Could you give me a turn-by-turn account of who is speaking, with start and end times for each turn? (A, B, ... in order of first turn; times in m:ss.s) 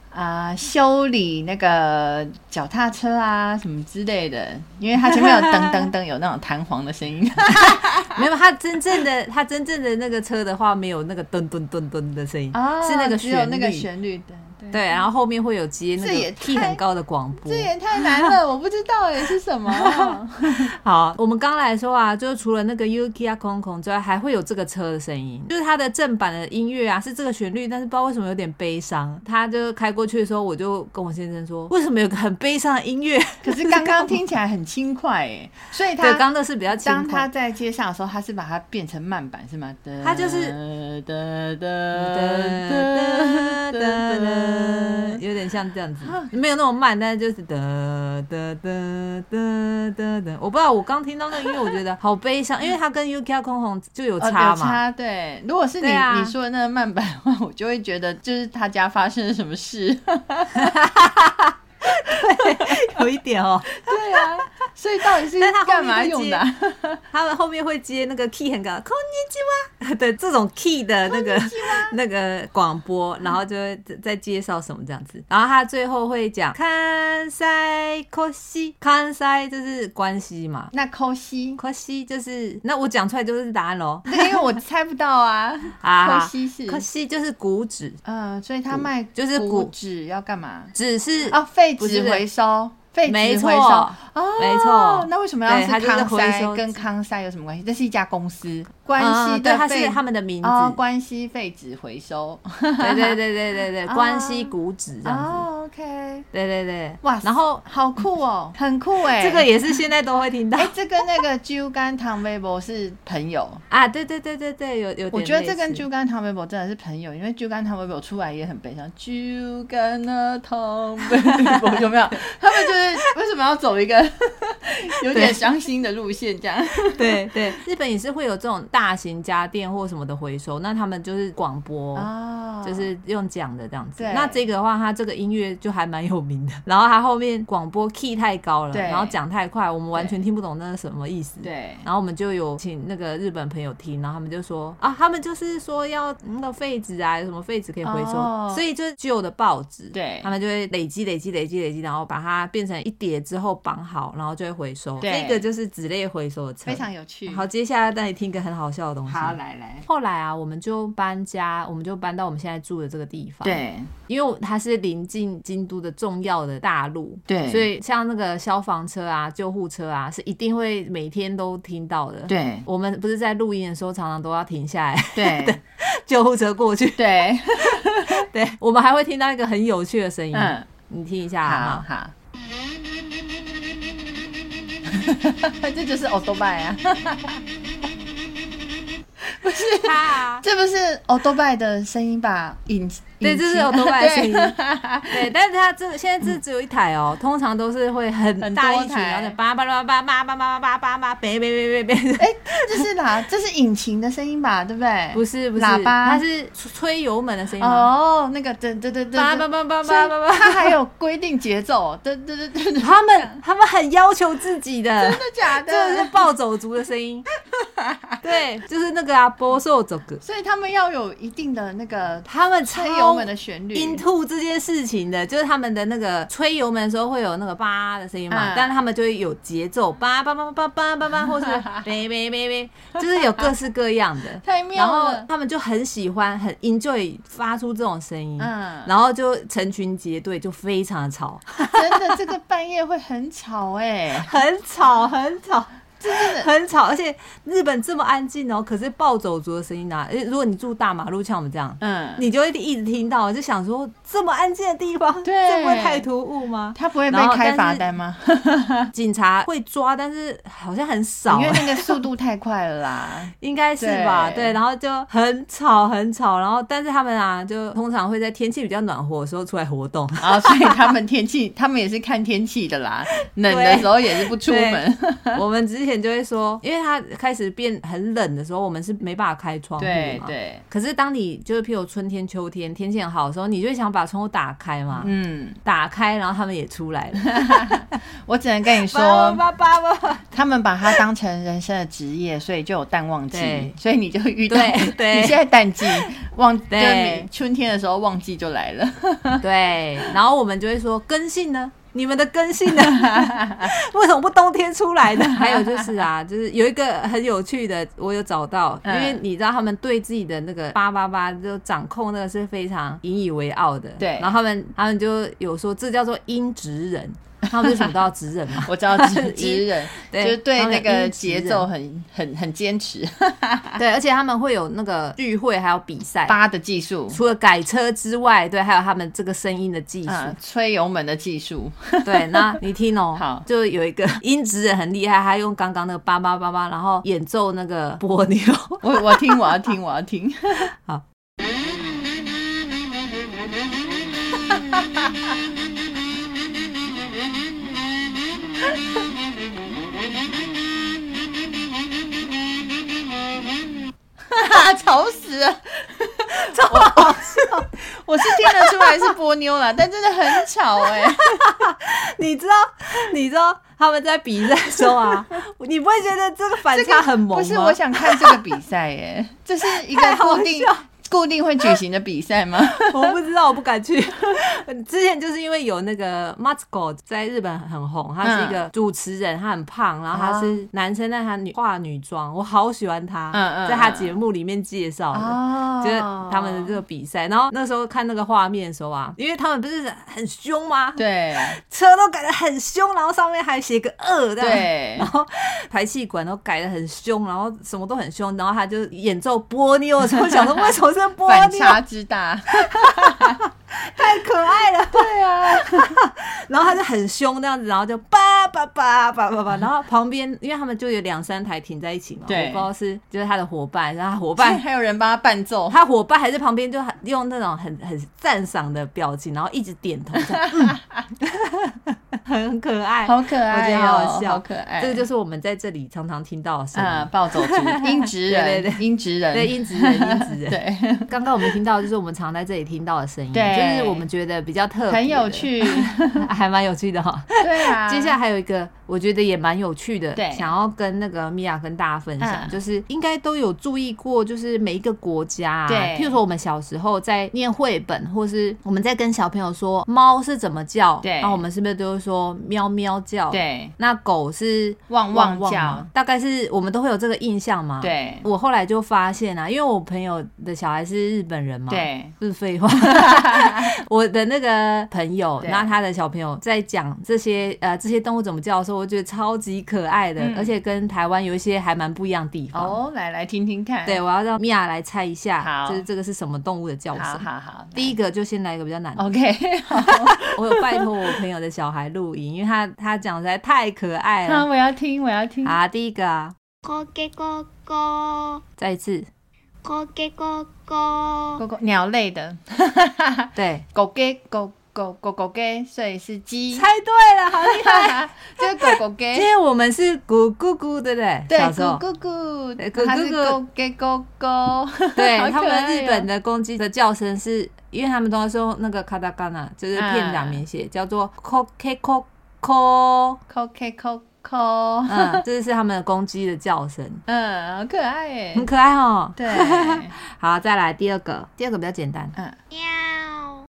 0:00.1-0:08.2 A
0:07.6-0:13.9 B
0:12.5-0:15.0 A
0:14.7-0:18.3 B
0:16.0-0:16.8 A
0:17.4-0:20.7 A
0:19.7-0:20.2 B
0:20.7-0:34.2 B
0:33.4-0:45.2 A
0:36.0-0:37.3 B
0:40.0-0:40.6 B
0:41.9-0:54.8 B
0:46.0-0:46.3 A
0:54.2-1:00.8 A
0:55.8-0:56.3 B
1:00.6-1:04.4 B
1:02.0-1:02.9 A
1:03.7-1:07.0 A
1:05.0-1:06.4 B
1:07.1-1:20.7 B
1:11.0-1:12.0 A
1:20.7-1:21.6 A
1:21.6-1:24.5 B
1:24.1-1:26.8 A
1:25.8-1:28.0 B
1:28.0-1:30.7 A
1:28.7-1:29.7 B
1:30.7-1:32.2 B
1:31.3-1:43.2 A
1:33.0-1:36.8 B
1:39.0-1:40.8 B
1:42.8-1:45.5 B
1:43.8-1:44.5 A
1:45.0-1:46.3 A
1:46.3-1:47.6 B
1:47.0-1:49.5 A
1:49.0-1:51.2 B
1:50.6-1:53.6 A
1:53.7-1:55.8 B
1:55.1-2:07.2 A
2:01.3-2:01.8 B
2:05.1-2:05.4 B
2:06.9-2:12.1 B
2:11.9-2:12.9 A
2:12.6-3:01.8 B
2:14.0-2:14.4 A
2:18.7-2:19.2 A
2:21.4-2:21.8 A
2:27.8-2:28.6 A
2:29.9-2:30.3 A
2:35.0-2:35.4 A
2:36.6-2:37.5 A
2:39.1-2:39.8 A
2:43.4-2:43.9 A
2:47.3-2:47.7 A
2:52.3-2:52.6 A
2:55.1-2:55.6 A
2:57.0-2:58.2 A
3:00.3-3:00.7 A
3:01.4-3:02.1 A
3:04.8-3:07.4 A
3:09.2-3:15.3 A
3:09.8-3:10.4 B
3:13.2-3:14.6 B
3:15.1-3:22.9 B
3:18.4-3:19.4 A
3:22.2-3:26.2 A
3:25.1-3:27.9 B
3:27.6-3:33.4 A
3:29.2-3:30.8 B
3:32.8-3:37.2 B
3:35.0-3:36.3 A
3:37.6-3:38.2 A
3:38.2-3:40.2 B
3:40.2-3:44.0 A
3:42.3-4:02.3 B
3:48.3-3:48.7 A
3:51.3-3:51.8 A
3:54.4-3:55.3 A
3:58.4-3:58.9 A
4:01.7-4:04.3 A
4:04.1-4:17.8 B
4:06.0-4:06.5 A
4:11.8-4:12.2 A
4:15.2-4:16.1 A
4:16.7-4:18.9 A
4:18.9-4:22.0 B
4:21.3-4:24.6 A
4:23.4-4:30.8 B
4:30.2-4:35.4 A
4:33.4-4:45.1 B
4:39.8-4:40.6 A
4:45.0-4:45.6 A
4:45.6-4:47.9 B
4:47.2-4:49.4 A
4:48.8-4:50.2 B
4:50.3-4:59.4 A
4:53.3-4:53.7 B
4:54.5-4:56.1 B
4:56.7-4:57.3 B
4:59.4-5:21.7 B
5:02.9-5:03.7 A
5:05.2-5:05.9 A
5:08.8-5:09.2 A
5:14.0-5:14.3 A
5:18.6-5:23.8 A
5:23.8-5:26.4 B
5:26.2-5:27.2 A
5:27.1-5:30.4 B
5:30.0-5:32.6 A
5:32.0-5:39.6 B
5:33.2-5:33.4 A
5:38.8-5:40.7 A
5:40.7-5:41.0 B
5:54.3-6:01.5 A
5:56.3-5:57.7 B
5:58.2-5:59.1 B
6:00.8-6:08.4 B
6:06.7-6:13.2 A
6:09.9-6:10.8 B
6:12.6-6:41.8 B
6:18.2-6:18.6 A
6:20.1-6:20.6 A
6:23.3-6:24.1 A
6:25.1-6:26.8 A
6:31.0-6:31.6 A
6:34.4-6:35.1 A
6:41.2-6:43.4 A
6:42.7-6:54.6 B
6:44.9-6:46.0 A
6:52.2-6:52.7 A
6:54.4-6:55.8 A
6:55.7-7:52.8 B
7:00.3-7:01.0 A
7:03.0-7:05.0 A
7:06.7-7:11.1 A
7:13.3-7:14.0 A
7:14.9-7:16.2 A
7:17.4-7:18.2 A
7:20.2-7:20.5 A
7:22.2-7:22.6 A
7:25.7-7:26.2 A
7:31.0-7:31.4 A
7:33.3-7:33.7 A
7:34.9-7:35.9 A
7:37.8-7:38.2 A
7:41.7-7:42.1 A
7:42.8-7:43.7 A
7:45.4-7:45.7 A
7:50.2-7:50.5 A
7:52.5-7:54.0 A
7:53.8-7:59.1 B
7:55.4-7:55.8 A
7:56.9-7:57.9 A
7:59.0-8:01.1 A
7:59.7-8:04.4 B
8:04.2-8:05.6 A
8:05.4-8:06.3 B
8:06.6-8:08.4 C
8:08.6-8:09.1 B
8:09.6-8:11.4 C
8:11.4-8:16.7 A
8:13.4-8:13.6 B
8:16.5-8:21.8 B
8:17.3-8:19.3 A
8:21.3-8:26.1 A
8:22.6-8:23.4 B
8:25.0-8:33.2 B
8:29.7-8:30.4 A
8:33.3-8:35.2 A
8:34.9-8:37.0 B
8:37.1-8:38.5 A
8:38.3-8:42.1 B
8:39.2-8:39.9 A
8:42.5-8:43.4 C